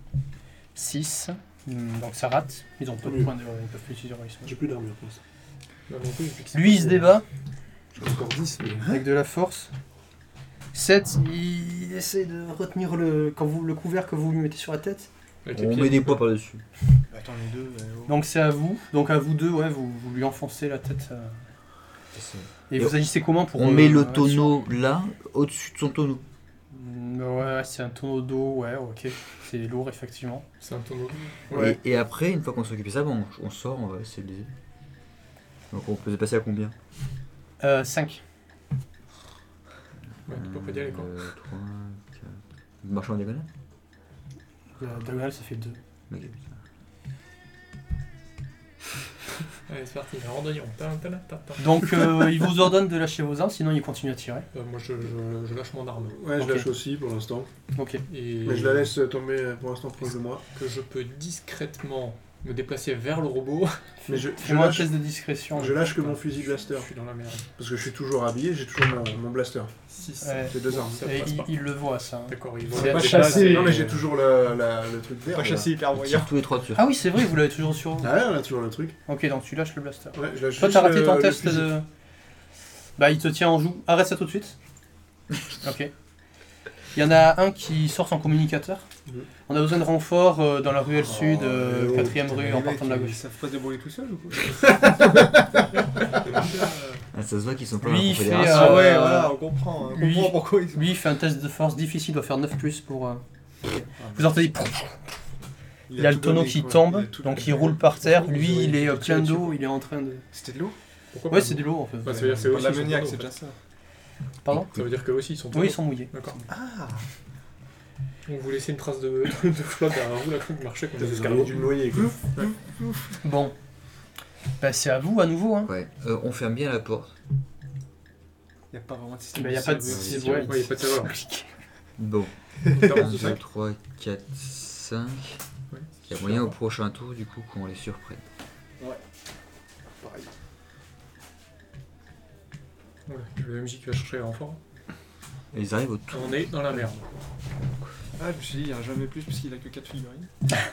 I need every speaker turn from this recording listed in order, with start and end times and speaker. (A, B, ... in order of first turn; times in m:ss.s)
0:00.8-0:04.5 A
0:03.0-0:03.3 B
0:04.4-0:05.2 B
0:05.9-0:07.2 C
0:06.5-0:07.2 A
0:08.0-0:09.0 B
0:08.8-0:09.7 A
0:10.7-0:15.1 A
0:15.4-0:16.2 C
0:15.5-0:16.6 D
0:17.1-0:18.2 E
0:18.1-0:21.5 A
0:22.1-0:26.2 D
0:22.7-0:24.5 A
0:26.7-0:30.5 A
0:30.6-0:31.7 C
0:31.5-0:34.5 D
0:35.7-0:36.8 D
0:37.6-0:38.2 A
0:40.3-0:41.1 C
0:40.3-0:43.5 D
0:44.8-0:45.8 A
0:46.1-0:46.6 D
0:49.7-0:51.7 C
0:51.6-0:54.5 A
0:54.5-0:56.2 C
0:56.1-0:57.5 B
0:56.4-0:56.7 A
0:57.8-0:58.0 A
0:58.1-0:58.9 C
0:58.4-1:00.4 B
1:00.0-1:03.9 C
1:04.1-1:04.9 B
1:04.1-1:05.8 A
1:05.5-1:06.9 B
1:05.6-1:07.5 C
1:07.6-1:09.7 B
1:09.9-1:11.5 C
1:10.2-1:13.8 A
1:10.4-1:11.2 B
1:12.3-1:14.0 C
1:12.7-1:15.6 B
1:12.8-1:14.0 E
1:15.3-1:16.3 E
1:15.4-1:16.9 D
1:16.8-1:18.1 A
1:18.0-1:19.0 B
1:19.0-1:21.9 A
1:20.1-1:21.7 B
1:23.0-1:24.6 A
1:25.6-1:25.9 A
1:26.9-1:28.9 A
1:29.5-1:33.2 A
1:31.0-1:32.4 B
1:32.3-1:35.6 E
1:36.2-1:36.8 E
1:37.1-1:38.9 D
1:37.8-1:39.4 A
1:38.4-1:40.9 E
1:39.9-1:43.2 A
1:43.7-1:44.4 E
1:44.1-1:45.0 A
1:45.9-1:49.6 E
1:46.0-1:50.2 A
1:50.3-1:50.8 E
1:51.1-1:53.3 C
1:51.3-1:52.6 A
1:52.1-1:53.6 E
1:54.4-1:54.8 A
1:54.7-1:56.4 C
1:55.5-1:56.4 A
1:56.5-1:57.0 E
1:58.3-2:01.8 C
2:01.0-2:02.2 B
2:01.9-2:03.2 E
2:03.2-2:03.5 A
2:04.6-2:05.7 A
2:05.6-2:07.1 D
2:08.7-2:10.5 E
2:09.3-2:11.5 A
2:09.9-2:10.5 D
2:10.3-2:11.1 C
2:12.0-2:15.4 D
2:12.6-2:13.4 E
2:12.7-2:13.4 C
2:15.7-2:16.5 C
2:16.1-2:18.2 D
2:20.0-2:20.3 E
2:23.1-2:24.6 C
2:25.5-2:26.8 D
2:26.1-2:27.0 C
2:28.2-2:30.3 E